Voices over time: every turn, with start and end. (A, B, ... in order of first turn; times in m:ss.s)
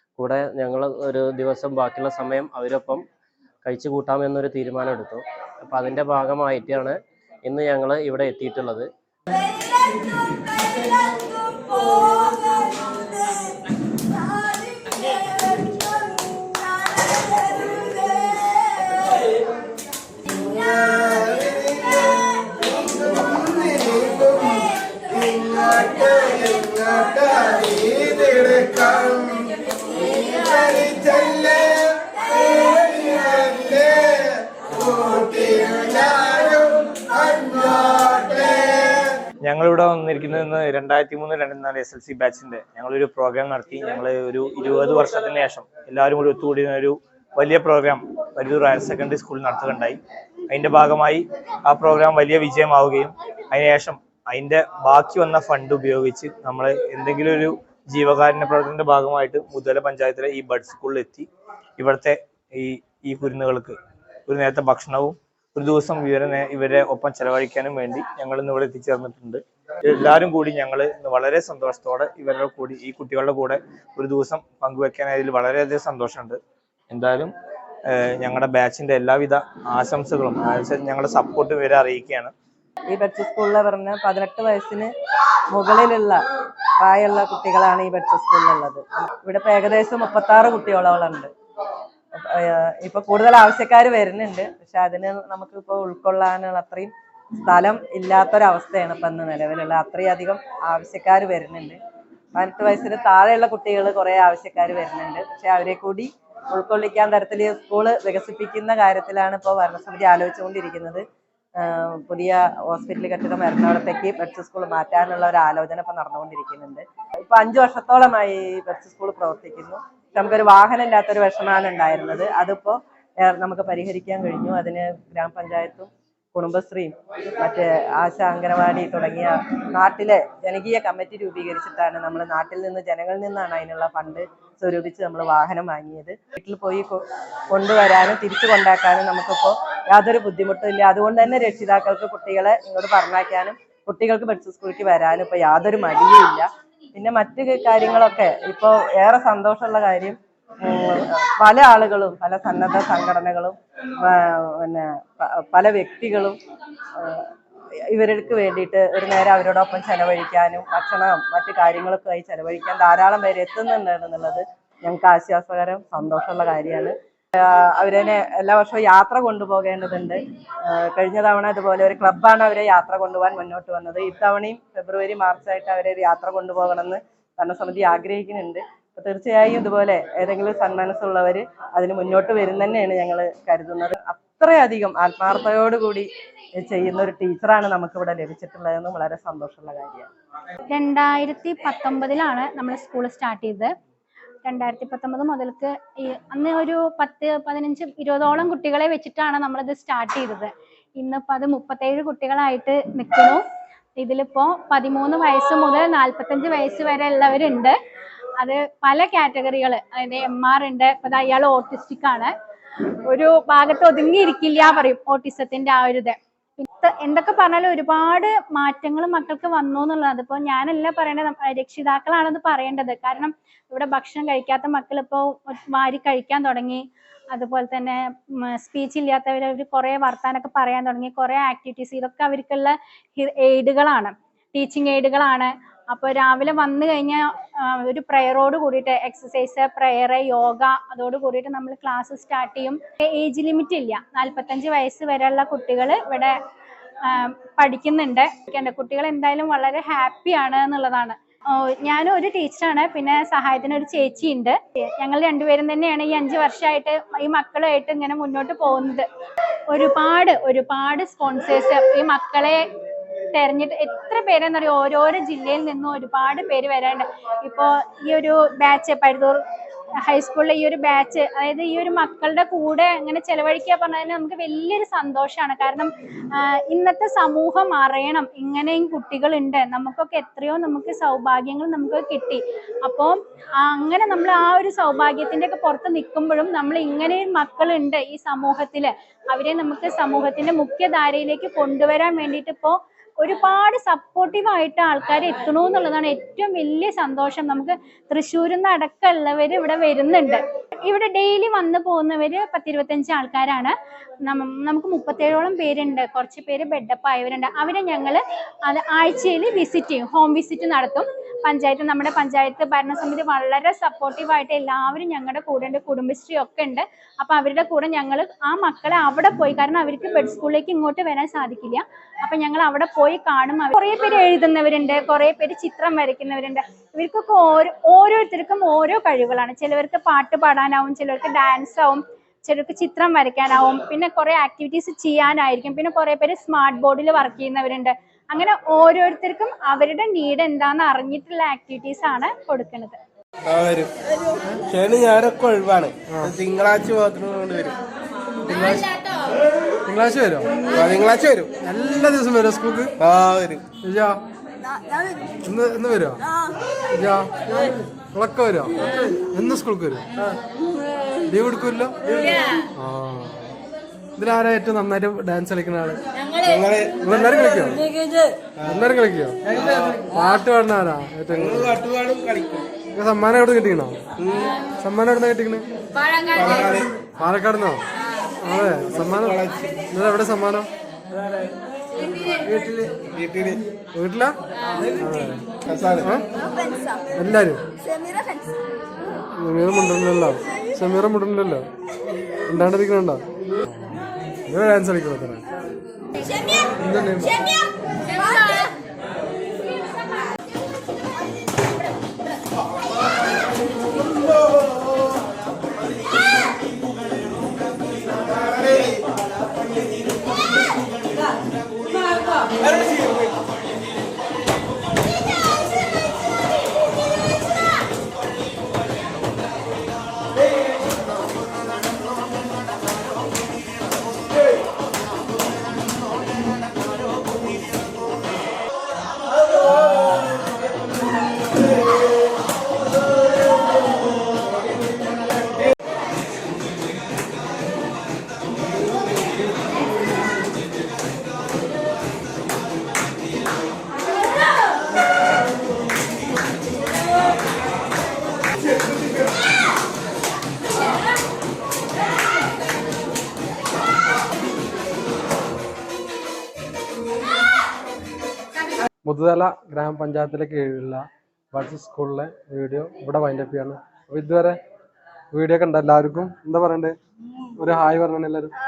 0:00.2-0:03.0 A
0:03.6-0:08.9 A
0:20.8-0:22.2 B
0:23.1-0:24.6 B
0:25.2-0:29.5 B
0:30.2-0:31.8 B
0:32.7-0:34.3 B
0:34.8-0:38.7 B
0:39.4-1:01.3 C
1:01.8-1:03.8 C
1:04.3-1:16.4 C
1:16.9-1:17.3 C
1:17.9-1:22.3 C
1:22.9-1:24.9 D
1:25.5-1:26.2 D
1:26.8-1:31.3 D
1:32.2-1:41.8 D
1:42.3-1:51.0 D
1:51.6-2:36.4 D
2:37.0-2:37.3 D
2:37.9-3:10.1 D
3:10.7-3:13.7 E
3:14.4-3:23.4 E
3:24.0-3:27.7 E
3:28.4-3:32.3 E
3:33.0-4:06.4 E
4:07.0-4:19.0 E
4:19.7-4:22.6 E
4:23.3-4:29.4 E
4:30.0-5:03.7 E
5:04.2-5:43.0 E
5:43.4-5:47.8 B
5:46.1-5:46.4 F
5:48.4-5:48.9 F
5:49.9-5:50.5 F
5:50.6-5:51.5 B
5:51.6-5:52.9 F
5:53.0-5:53.7 B
5:53.8-5:54.2 F
5:55.4-5:56.2 F
5:56.9-6:00.0 F
6:01.3-6:02.0 F
6:02.8-6:03.5 F
6:04.2-6:06.0 F
6:06.4-6:07.1 B
6:07.0-6:07.8 F
6:08.6-6:08.9 B
6:08.7-6:09.4 F
6:09.6-6:10.1 B
6:10.1-6:11.8 F
6:11.3-6:12.7 B
6:12.9-6:14.0 F
6:14.2-6:14.5 B
6:14.8-6:15.6 F
6:16.3-6:17.0 B
6:17.1-6:17.8 F
6:18.4-6:19.4 F
6:18.9-6:19.9 B
6:19.9-6:20.7 F
6:22.1-6:23.6 B
6:23.9-6:24.4 F
6:25.0-6:25.4 F
6:25.6-6:26.1 B
6:27.2-6:27.6 F
6:29.3-6:31.7 F
6:32.5-6:34.0 F
6:34.5-6:35.4 F
6:36.8-6:37.4 F
6:48.4-6:49.0 B
6:52.7-6:53.3 B
7:39.0-7:44.6 F
7:45.3-7:46.9 F
7:47.6-7:48.5 F